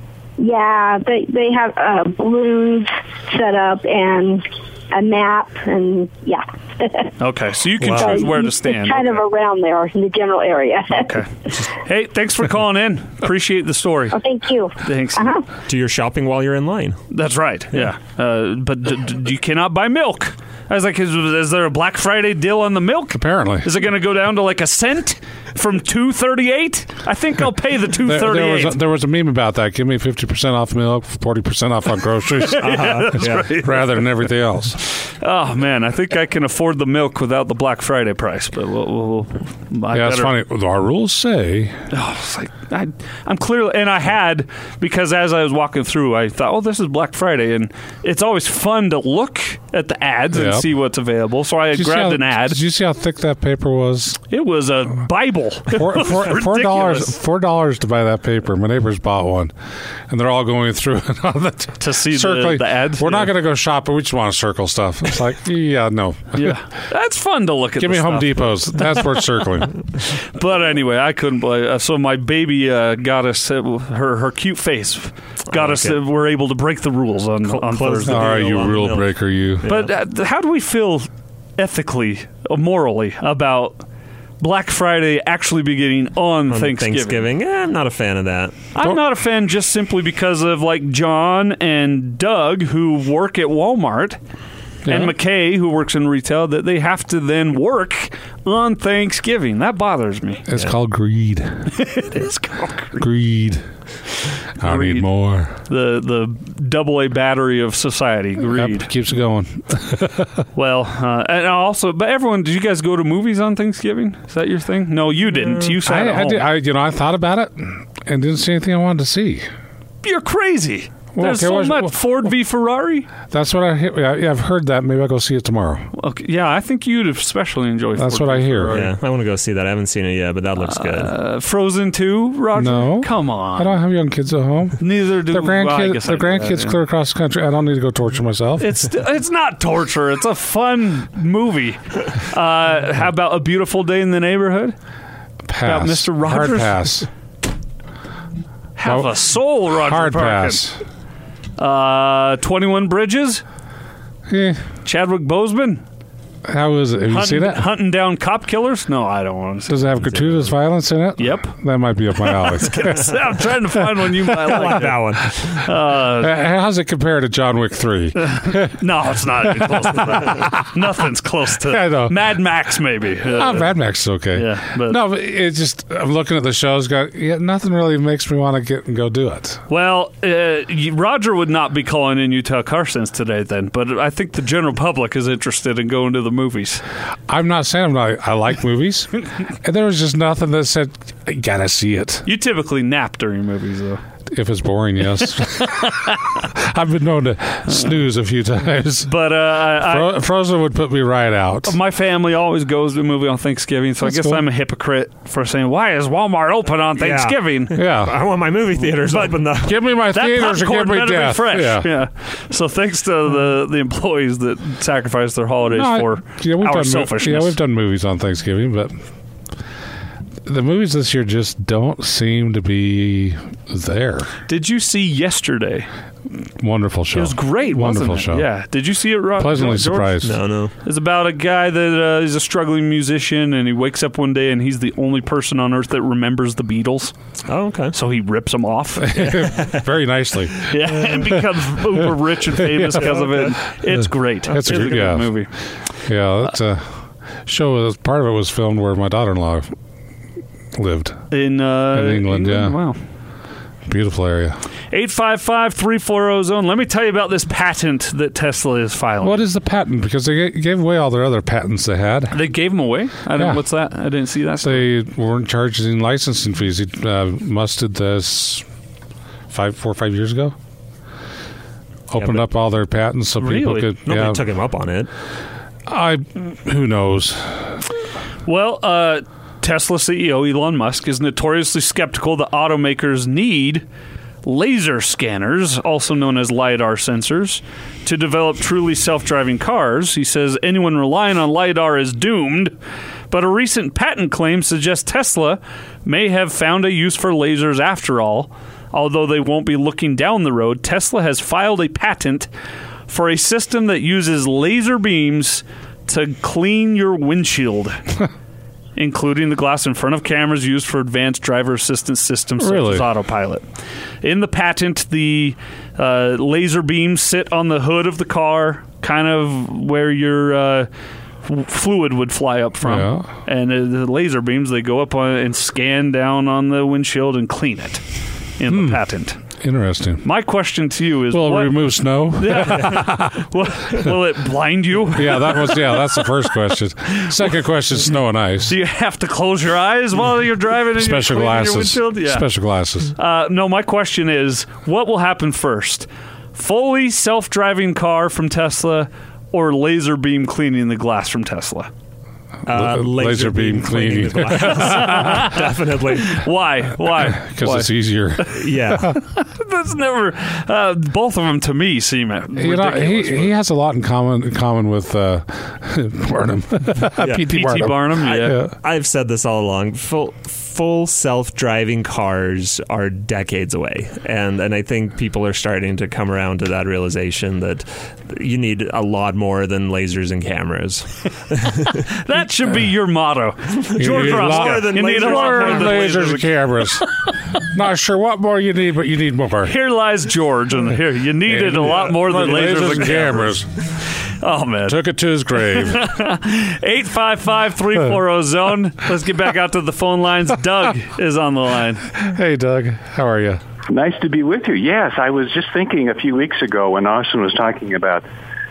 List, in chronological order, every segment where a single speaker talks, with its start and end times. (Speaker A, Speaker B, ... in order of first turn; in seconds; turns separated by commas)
Speaker A: 0.4-7.1, Speaker B: 7.2-9.2, Speaker A: 7.9-11.2, Speaker B: 10.9-14.2, Speaker A: 14.1-15.4, Speaker B: 14.8-15.3, Speaker C: 15.7-17.0, Speaker B: 17.1-28.8, Speaker D: 23.1-23.7, Speaker D: 28.0-34.8, Speaker B: 32.4-33.8, Speaker C: 32.6-33.5, Speaker B: 35.0-40.3, Speaker D: 39.9-41.8, Speaker B: 41.9-52.6, Speaker D: 50.3-50.7, Speaker D: 51.7-54.2, Speaker B: 54.3-57.1, Speaker D: 55.7-59.5, Speaker D: 60.1-66.6, Speaker B: 61.8-63.3, Speaker B: 66.3-69.0, Speaker D: 67.8-69.8, Speaker B: 70.3-78.6, Speaker C: 75.5-76.0, Speaker C: 77.4-79.9, Speaker D: 78.0-79.7, Speaker B: 79.6-83.8, Speaker B: 84.4-87.3, Speaker C: 86.5-88.7, Speaker B: 88.7-94.2, Speaker D: 94.8-95.1, Speaker B: 94.9-100.4, Speaker D: 100.5-101.7, Speaker B: 101.8-103.0, Speaker D: 103.0-103.6, Speaker D: 104.6-105.5, Speaker B: 104.6-108.9, Speaker D: 108.4-110.3, Speaker B: 110.5-116.5, Speaker D: 115.8-119.5, Speaker B: 120.0-123.1, Speaker D: 121.1-122.0, Speaker D: 123.3-125.9, Speaker B: 125.9-128.9, Speaker D: 128.0-128.8, Speaker C: 128.7-131.1, Speaker B: 130.6-133.8, Speaker D: 132.5-138.8, Speaker B: 134.8-136.8, Speaker B: 138.6-144.7, Speaker D: 145.4-147.1, Speaker B: 145.6-146.8, Speaker B: 148.8-150.6, Speaker D: 148.8-150.8, Speaker B: 151.6-153.4, Speaker D: 154.3-154.6, Speaker B: 154.8-155.8, Speaker D: 156.4-157.7, Speaker B: 157.1-159.8, Speaker D: 159.7-164.6, Speaker B: 161.2-161.5, Speaker B: 162.2-165.0, Speaker C: 164.4-165.6, Speaker B: 165.6-166.4, Speaker D: 166.2-170.6, Speaker B: 168.2-173.7, Speaker D: 171.6-172.2, Speaker D: 173.3-179.6, Speaker B: 174.3-175.0, Speaker B: 179.7-186.8, Speaker D: 187.3-192.3, Speaker B: 192.2-194.0, Speaker D: 194.3-199.1, Speaker B: 199.0-200.1, Speaker D: 199.8-201.8, Speaker B: 201.6-207.7, Speaker D: 204.0-204.4, Speaker C: 207.0-209.7, Speaker D: 207.7-208.2, Speaker B: 209.1-209.4, Speaker D: 209.6-211.9, Speaker B: 210.1-217.6, Speaker D: 215.7-218.9, Speaker D: 220.4-224.3, Speaker B: 224.5-225.9, Speaker D: 226.6-228.5, Speaker B: 227.1-230.2, Speaker D: 229.4-230.4, Speaker C: 230.2-230.7, Speaker B: 230.8-237.1, Speaker C: 237.5-237.9, Speaker B: 237.9-239.2, Speaker D: 239.0-241.4, Speaker C: 239.2-239.8, Speaker B: 240.7-245.5, Speaker D: 242.6-243.2, Speaker C: 243.0-243.5, Speaker D: 243.9-245.5, Speaker C: 244.5-245.0, Speaker D: 246.0-249.7, Speaker D: 250.7-251.2, Speaker B: 251.3-253.0, Speaker D: 251.9-252.8, Speaker D: 253.8-254.6, Speaker B: 254.9-259.4, Speaker D: 259.2-262.4, Speaker B: 262.3-264.9, Speaker D: 263.3-263.6, Speaker D: 264.6-268.6, Speaker D: 269.5-270.5, Speaker D: 272.1-274.4, Speaker B: 273.4-273.9, Speaker C: 274.1-275.1, Speaker D: 275.9-277.8, Speaker B: 278.4-283.8, Speaker B: 284.4-292.7, Speaker B: 293.3-302.5, Speaker B: 303.1-308.0, Speaker B: 308.9-313.6, Speaker D: 312.6-313.1, Speaker B: 314.2-320.9, Speaker B: 321.4-328.0, Speaker D: 322.8-323.3, Speaker B: 328.6-329.4, Speaker D: 328.7-329.0, Speaker D: 329.6-330.3, Speaker B: 330.2-331.8, Speaker D: 331.3-333.4, Speaker B: 332.4-336.3, Speaker D: 335.1-338.7, Speaker B: 338.7-342.5, Speaker D: 340.9-343.1, Speaker B: 343.1-351.9, Speaker C: 352.6-356.4, Speaker D: 352.7-355.3, Speaker B: 354.6-355.6, Speaker B: 356.2-358.5, Speaker D: 357.1-359.1, Speaker C: 358.6-359.1, Speaker B: 359.1-363.5, Speaker D: 362.6-368.8, Speaker C: 367.2-367.4, Speaker B: 367.5-368.6, Speaker C: 368.8-381.9, Speaker B: 382.1-386.5, Speaker C: 383.7-386.3, Speaker D: 384.0-389.7, Speaker B: 389.6-393.5, Speaker D: 391.4-393.7, Speaker B: 394.2-395.0, Speaker D: 394.9-396.1, Speaker B: 395.6-402.1, Speaker D: 402.1-403.6, Speaker E: 403.9-408.2